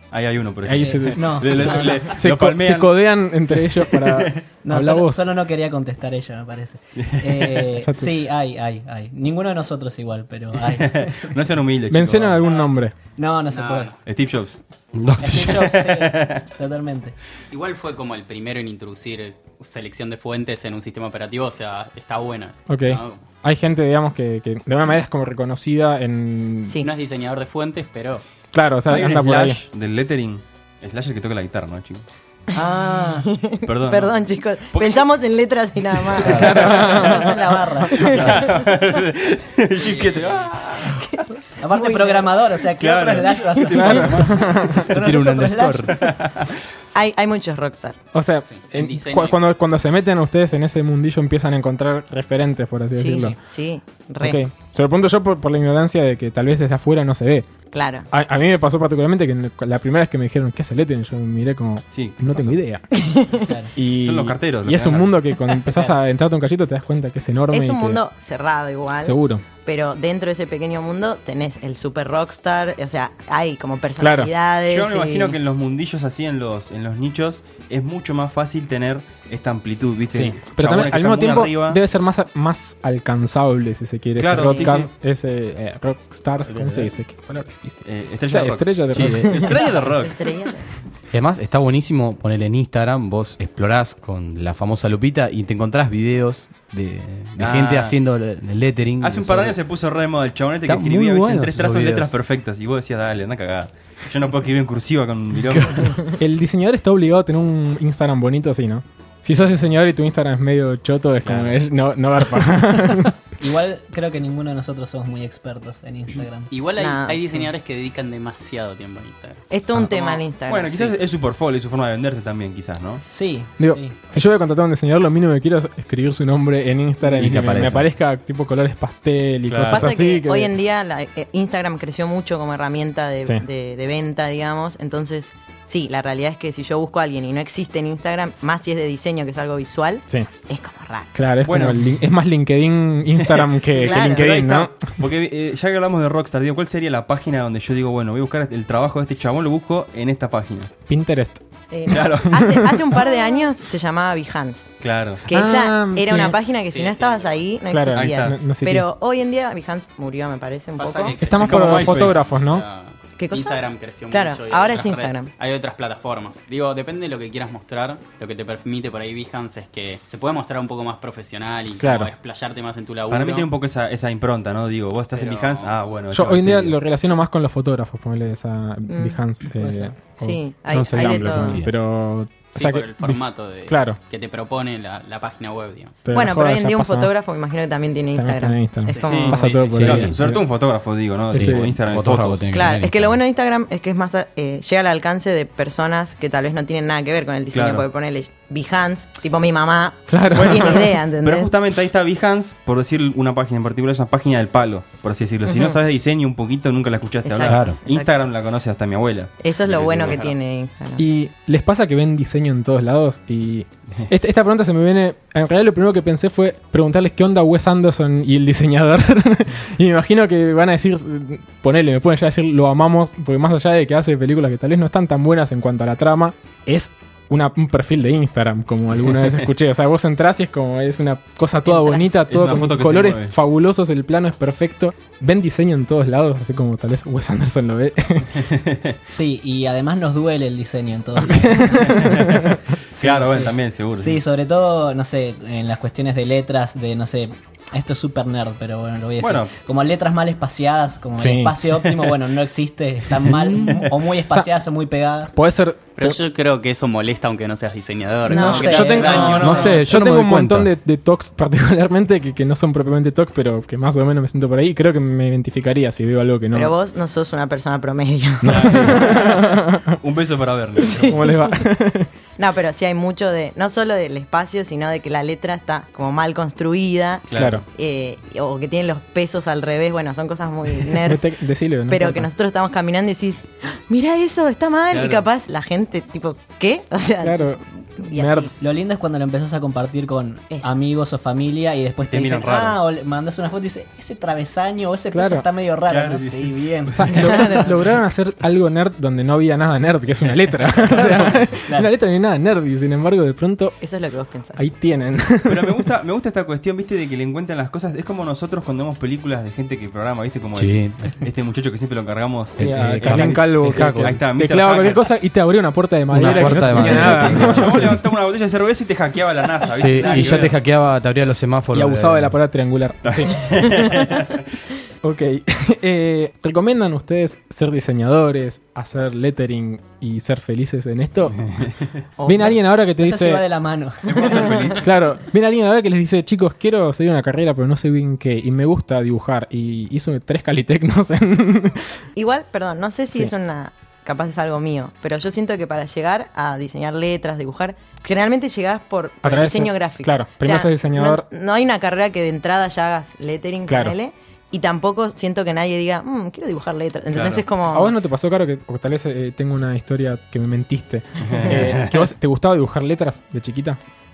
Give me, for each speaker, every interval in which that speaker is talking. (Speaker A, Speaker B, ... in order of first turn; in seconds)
Speaker A: 0.1-3.1, 3.8-4.4, 7.0-7.7, 10.7-12.5, 14.0-14.6, 15.7-16.4, 28.9-32.0, 33.6-35.1, 36.2-37.2, 38.0-41.0, 42.7-44.9, 45.9-46.5, 61.9-62.6, 63.9-65.2, 74.7-81.8, 84.2-84.9, 87.8-90.3, 97.4-98.0, 99.0-106.1, 111.2-111.6, 120.5-123.0, 129.5-129.9, 141.4-141.9, 143.3-150.7, 151.9-152.8, 154.8-155.2, 157.9-158.3, 161.4-162.2, 173.1-176.8, 189.0-192.5, 197.5-197.8, 200.3-210.3, 232.3-233.3, 238.4-238.9, 241.9-244.2, 249.2-249.5, 259.1-259.9, 268.5-269.4, 270.0-271.3, 277.3-277.6, 284.9-285.2, 292.1-292.8, 295.9-297.1, 305.4-315.1, 316.1-320.6, 323.0-324.4, 334.0-334.9, 357.1-357.4, 361.2-362.0
Speaker B: 0.6-5.2, 7.8-8.1, 11.9-12.9, 22.7-26.8, 28.5-29.6, 36.3-38.1, 43.7-44.8, 48.1-53.4, 54.2-57.5, 58.1-62.8, 63.8-68.0, 69.0-69.4, 74.0-74.3, 80.1-89.5, 106.2-113.1, 123.6-130.5, 141.1-145.0, 150.9-153.0, 155.3-156.4, 157.7-158.9, 161.2-162.6, 171.8-172.1, 176.1-184.0, 186.0-187.1, 188.1-190.4, 191.3-192.3, 200.1-200.9, 211.0-238.5, 241.2-242.6, 251.2-251.6, 255.3-256.2, 258.3-266.7, 268.4-269.9, 271.0-272.1, 277.4-277.6, 280.9-282.3, 287.2-288.5, 295.1-295.4, 297.0-303.8, 304.6-305.9, 312.6-318.0, 319.9-320.5, 321.7-323.6, 325.0-331.7, 332.2-333.4, 334.8-341.9, 349.2-351.2, 353.7-353.9, 357.7-363.8
Speaker C: 0.8-2.1, 4.6-11.3, 13.2-13.9, 15.2-17.2, 32.5-33.3, 36.4-38.1, 41.6-46.0, 63.4-63.7, 113.4-116.5, 123.0-123.9, 179.6-179.9, 239.1-255.3, 288.6-297.1, 300.9-301.9, 333.0-334.5
Speaker D: 13.5-14.0, 17.5-23.2, 26.8-28.2, 39.8-40.6, 48.4-49.4, 116.5-119.4, 119.9-120.2, 156.6-157.4, 160.8-173.5, 175.1-175.7, 182.5-186.0, 188.9-190.0, 210.1-210.3, 256.0-259.8
Speaker E: 14.9-15.6, 44.9-45.9, 86.6-86.8, 88.9-89.4, 91.1-99.5, 100.7-102.1, 127.1-127.9, 180.7-181.7, 189.7-190.2, 191.3-193.2, 207.5-207.8, 253.3-253.8, 259.3-260.7, 310.6-311.1, 312.6-314.2, 316.1-318.0, 319.7-322.3
Speaker F: 26.6-26.9, 33.1-36.9, 37.9-38.6, 40.8-42.4, 46.9-48.0, 52.9-54.4, 57.7-58.1, 62.9-63.5, 67.5-75.4, 84.3-84.8, 89.4-90.7, 116.8-117.2, 119.5-120.8, 129.7-141.1, 143.7-144.3, 151.7-161.2, 163.2-165.3, 178.9-179.2, 180.2-181.6, 186.1-189.4, 192.5-201.5, 205.5-205.8, 207.2-208.1, 209.4-211.0, 231.6-232.2, 258.2-259.7, 266.5-269.4, 270.8-271.4, 272.4-281.3, 281.9-288.5, 297.2-297.8, 303.8-304.6, 332.2-332.6, 342.1-357.9